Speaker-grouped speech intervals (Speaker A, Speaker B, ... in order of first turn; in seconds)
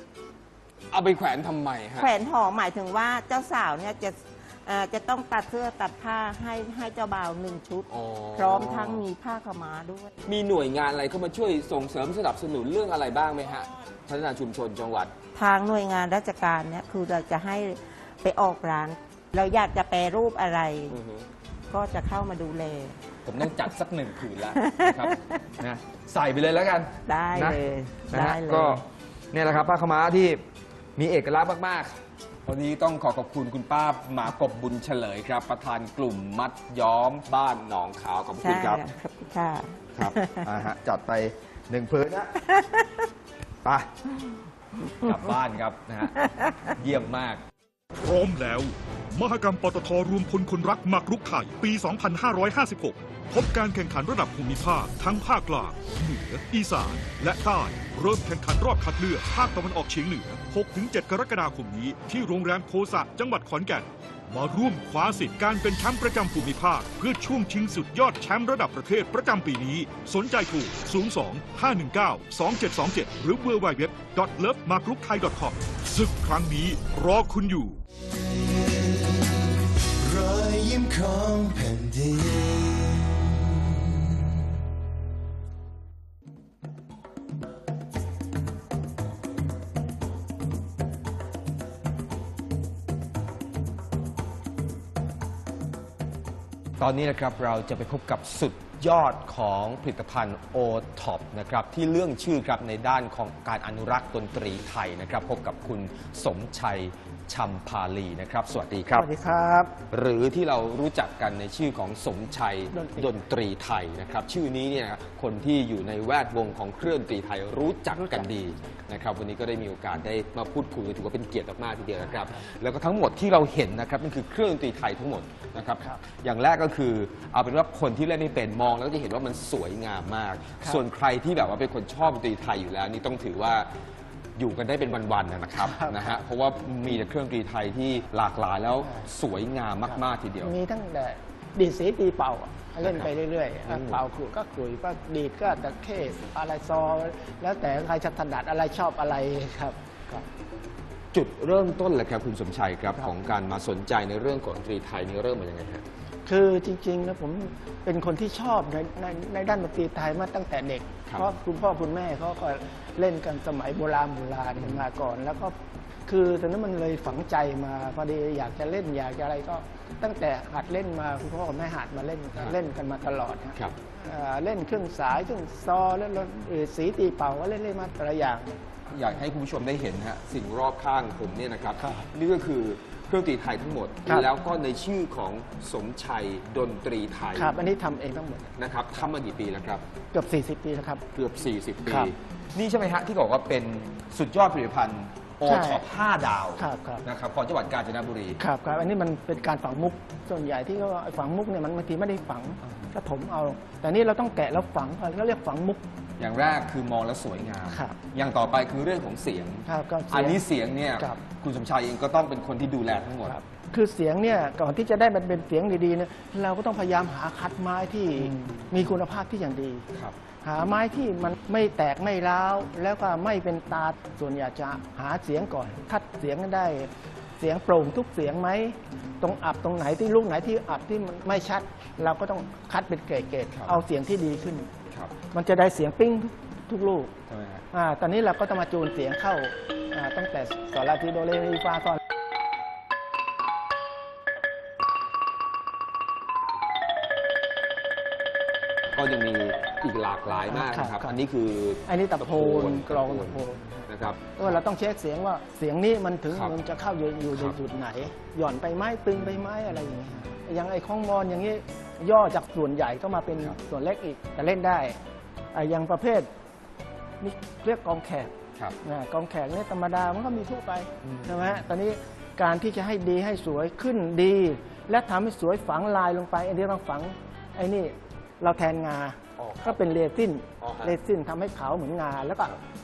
Speaker A: 0.9-2.1, 7.9-9.0, 10.2-15.1, 20.9-21.3, 23.2-30.4, 30.9-38.8, 40.0-42.3, 43.6-43.9, 45.0-46.1, 46.8-47.4, 96.8-109.1, 109.9-133.7, 134.4-140.5, 142.8-143.1, 143.7-144.0, 151.1-155.8, 161.1-161.4, 164.6-164.8, 178.9-187.6, 188.6-189.8, 191.1-198.4, 202.6-202.9, 206.2-213.4, 218.2-218.9, 233.5-233.8, 234.9-235.1, 237.3-237.7, 248.9-254.6, 256.3-256.6, 257.3-257.6, 259.1-259.4, 271.0-271.6, 279.4-279.8, 280.6-281.0
Speaker B: 2.0-10.1, 15.3-21.0, 21.7-23.0, 24.5-25.4, 27.1-28.8, 38.4-40.4, 42.5-43.0, 46.2-46.5
Speaker C: 48.0-77.8
Speaker D: 78.2-83.9
Speaker E: 108.9-109.8, 112.7-113.2, 118.0-118.3, 135.6-136.0, 139.9-150.2, 156.3-165.6, 166.1-178.6, 181.8-182.1, 187.3-188.5, 190.1-191.0, 191.8-192.1, 195.4-195.8, 196.6-197.0, 198.4-205.8, 207.7-208.0, 209.7-210.4, 210.9-211.2, 213.2-219.8, 220.4-234.7, 235.3-237.1, 237.7-242.0, 250.5-251.1, 251.9-265.0, 265.5-266.3, 267.2-282.6